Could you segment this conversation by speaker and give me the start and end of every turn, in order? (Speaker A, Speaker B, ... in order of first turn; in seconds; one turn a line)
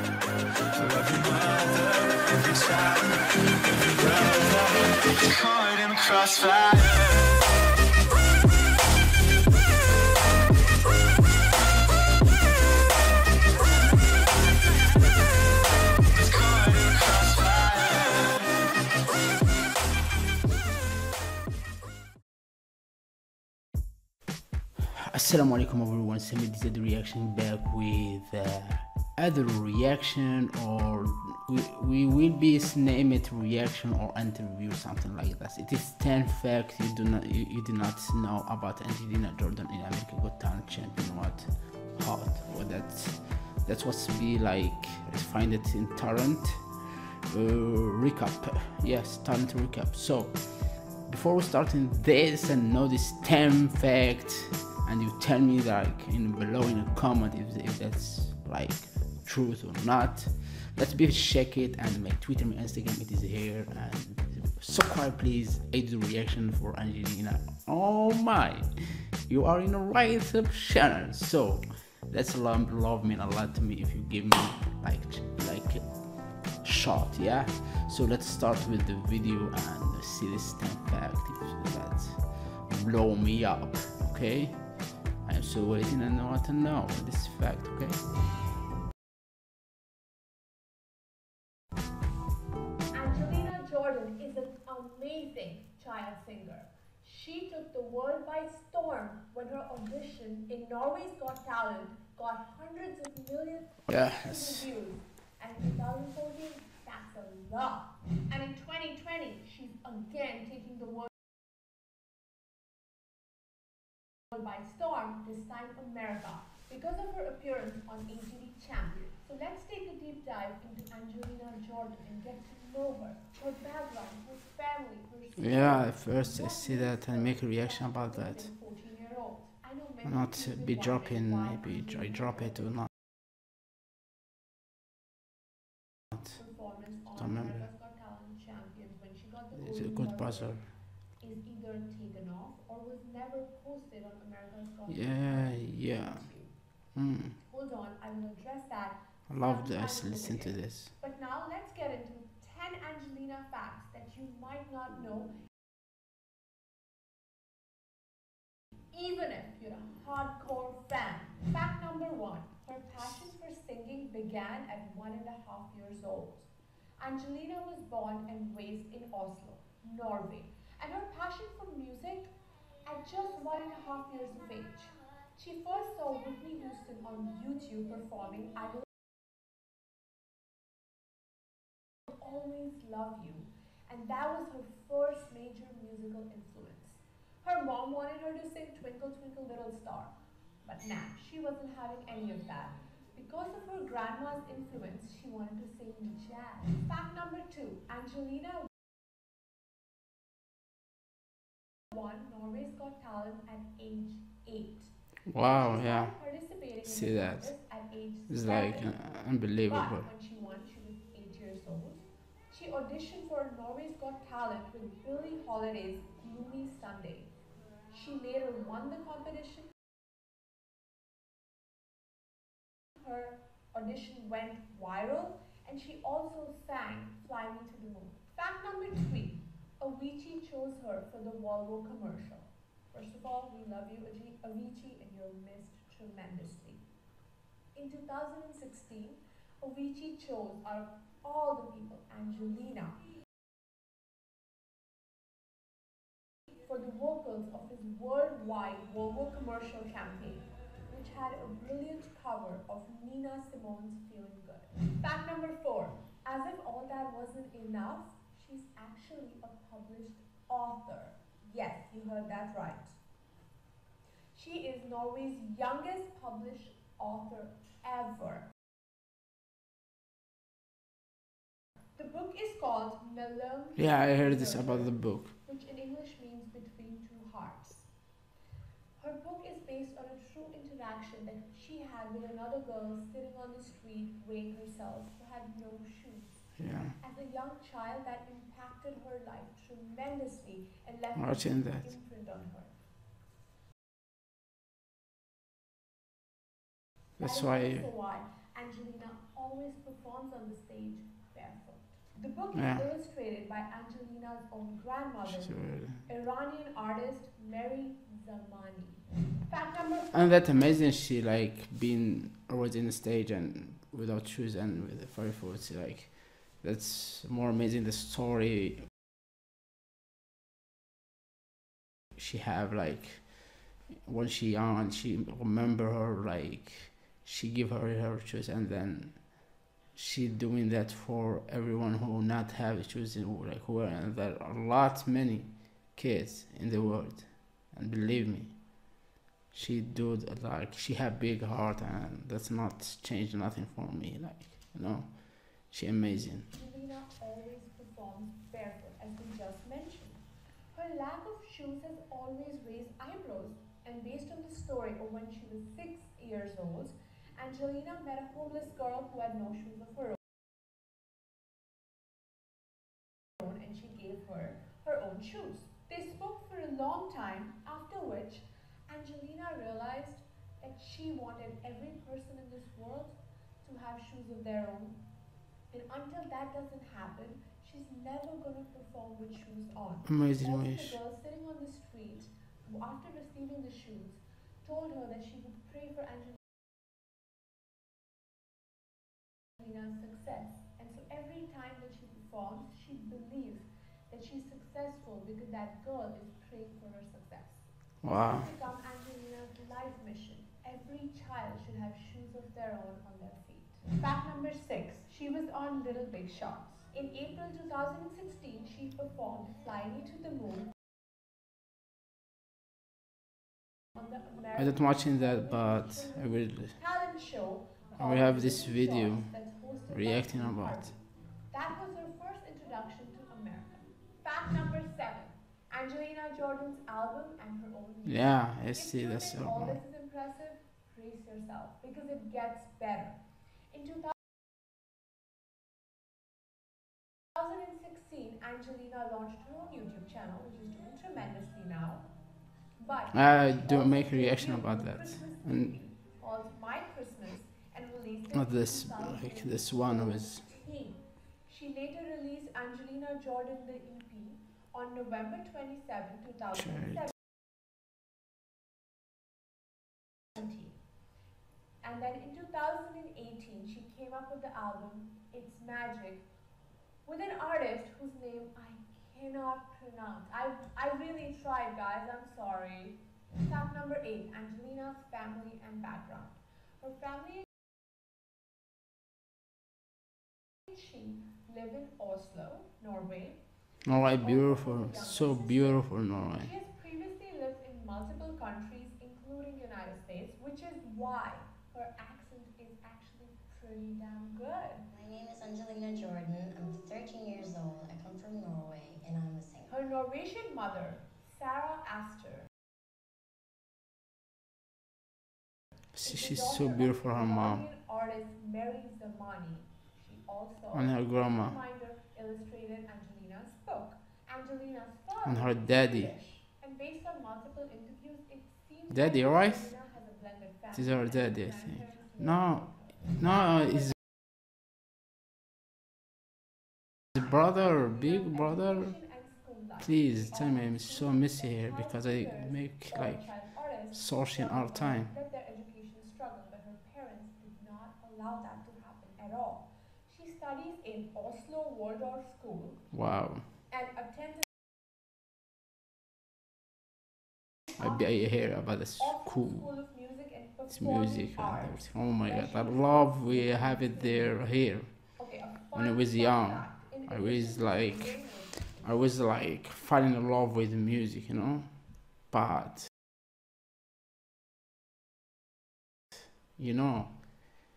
Speaker A: 0.7-7.3
Speaker A: 16.2-18.4
Speaker B: 24.8-46.6
Speaker B: 47.3-68.7
Speaker B: 69.3-75.8
Speaker B: 76.6-84.6
Speaker B: 85.2-88.0
Speaker C: 92.9-111.1
Speaker B: 103.9-104.6
Speaker C: 114.3-132.8
Speaker B: 125.4-128.5
Speaker B: 130.1-132.9
Speaker C: 136.2-146.5
Speaker B: 137.2-137.7
Speaker B: 139.6-140.7
Speaker B: 144.9-146.2
Speaker B: 146.9-147.4
Speaker C: 147.4-155.3
Speaker B: 149.3-150.9
Speaker C: 158.9-172.3
Speaker C: 172.9-178.9
Speaker C: 182.1-190.1
Speaker C: 190.6-198.7
Speaker C: 201.9-209.0
Speaker B: 205.3-206.1
Speaker B: 206.8-207.5
Speaker B: 208.3-210.1
Speaker C: 209.7-217.3
Speaker C: 217.9-219.7
Speaker C: 223.0-236.8
Speaker C: 237.8-243.1
Speaker C: 246.7-263.0
Speaker C: 264.3-268.5
Speaker C: 272.0-277.9
Speaker B: 273.8-275.3
Speaker C: 279.0-292.7
Speaker B: 286.6-287.0
Speaker B: 291.2-291.9
Speaker B: 297.2-297.9
Speaker C: 297.2-310.5
Speaker B: 302.6-302.8
Speaker B: 305.4-306.1
Speaker B: 310.1-318.9
Speaker B: 322.2-338.6
Speaker B: 339.5-346.5
Speaker C: 346.5-360.2
Speaker C: 363.4-375.0
Speaker C: 375.7-386.4
Speaker B: 380.1-381.0
Speaker C: 389.6-410.7
Speaker B: 398.0-398.5
Speaker C: 413.9-421.0
Speaker B: 414.6-416.8
Speaker B: 418.0-419.4
Speaker B: 419.9-420.9
Speaker C: 421.5-433.2
Speaker B: 428.1-429.8
Speaker C: 433.7-434.1
Speaker C: 437.4-442.1
Speaker C: 442.8-457.1
Speaker B: 443.1-445.8
Speaker B: 448.3-450.4
Speaker B: 456.6-457.0
Speaker C: 460.4-460.8
Speaker C: 461.8-466.3
Speaker C: 467.1-477.5
Speaker C: 480.7-494.9
Speaker B: 483.9-486.5
Speaker A: 494.9-499.7
Speaker C: 499.7-502.5
Speaker B: 506.0-507.6
Speaker C: 506.0-523.9
Speaker B: 510.7-511.6
Speaker B: 515.2-516.1
Speaker B: 518.9-519.7
Speaker B: 520.7-523.9
Speaker B: 527.1-529.0
Speaker C: 527.3-542.9
Speaker B: 529.8-535.1
Speaker B: 542.9-543.5
Speaker C: 543.7-544.5
Speaker C: 547.8-558.9
Speaker B: 547.8-549.7
Speaker B: 550.7-555.2
Speaker B: 555.7-562.9
Speaker B: 566.6-567.5